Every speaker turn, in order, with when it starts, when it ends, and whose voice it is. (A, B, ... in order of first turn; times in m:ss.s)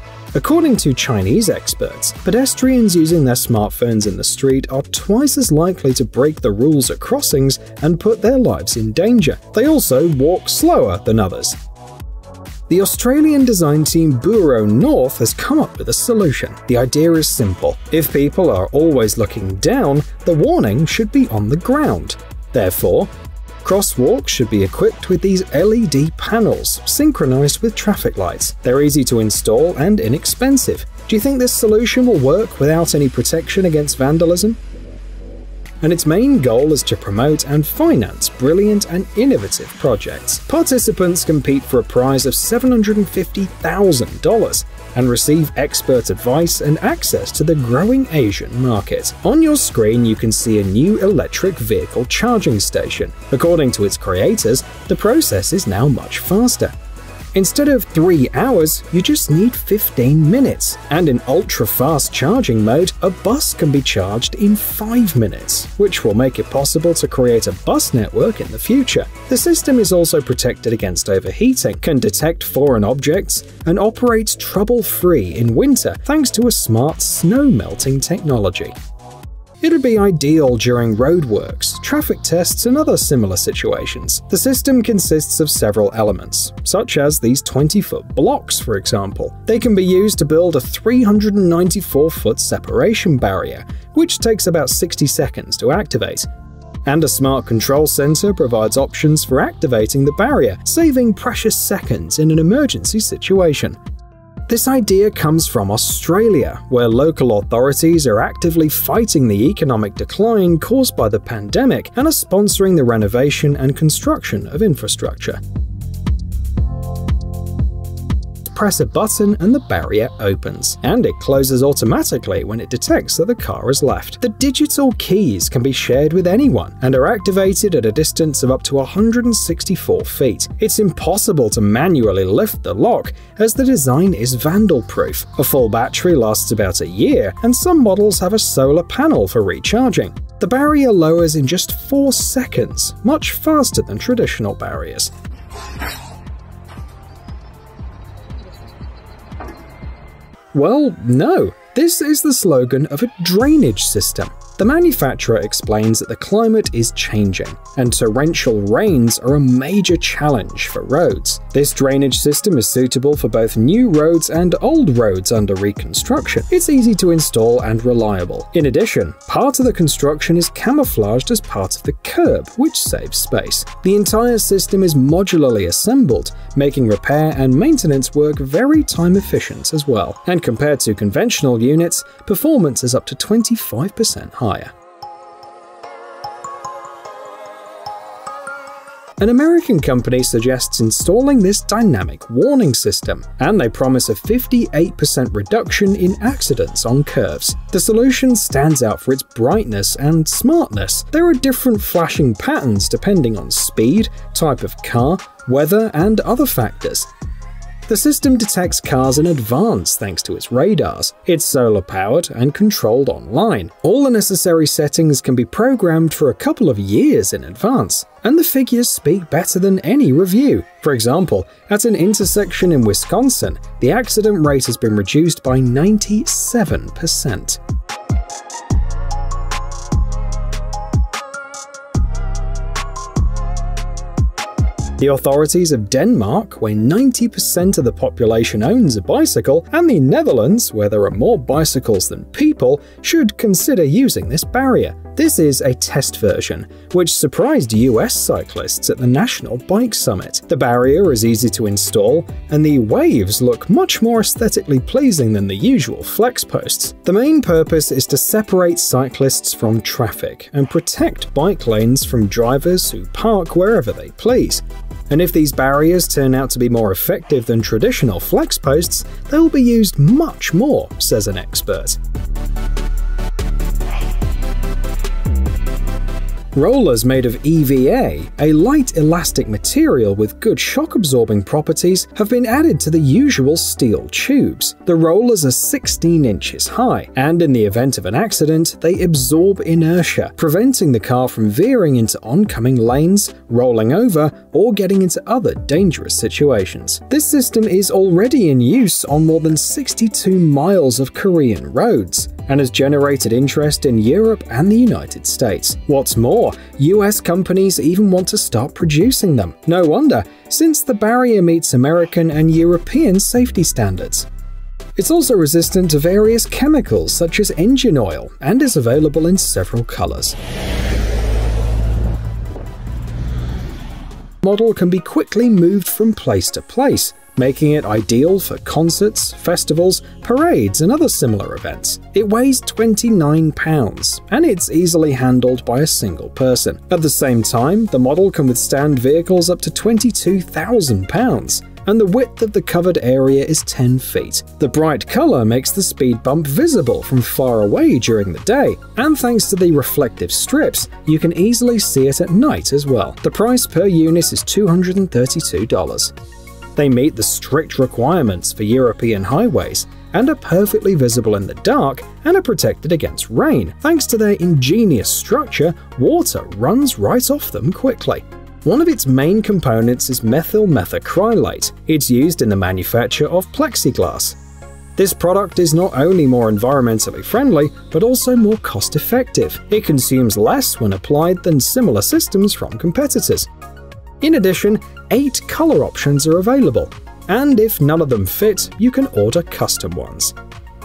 0:00.3-0:11.6 A
0:12.7-0:23.1 A
0:23.6-0:34.6 A
0:35.8-0:56.7 A
0:57.3-1:18.7 A
1:19.6-1:36.3 A
1:36.8-1:43.8 A
1:44.5-1:55.4 A
1:58.5-2:25.1 A
2:30.5-3:04.7 A
3:09.2-3:27.1 A
3:27.9-3:47.6 A
3:55.0-4:32.0 A
4:36.5-5:14.3 A
5:15.0-5:20.4 A
5:24.4-5:56.1 A
5:56.8-6:14.4 A
6:15.0-6:23.5 A
6:24.2-6:30.3 A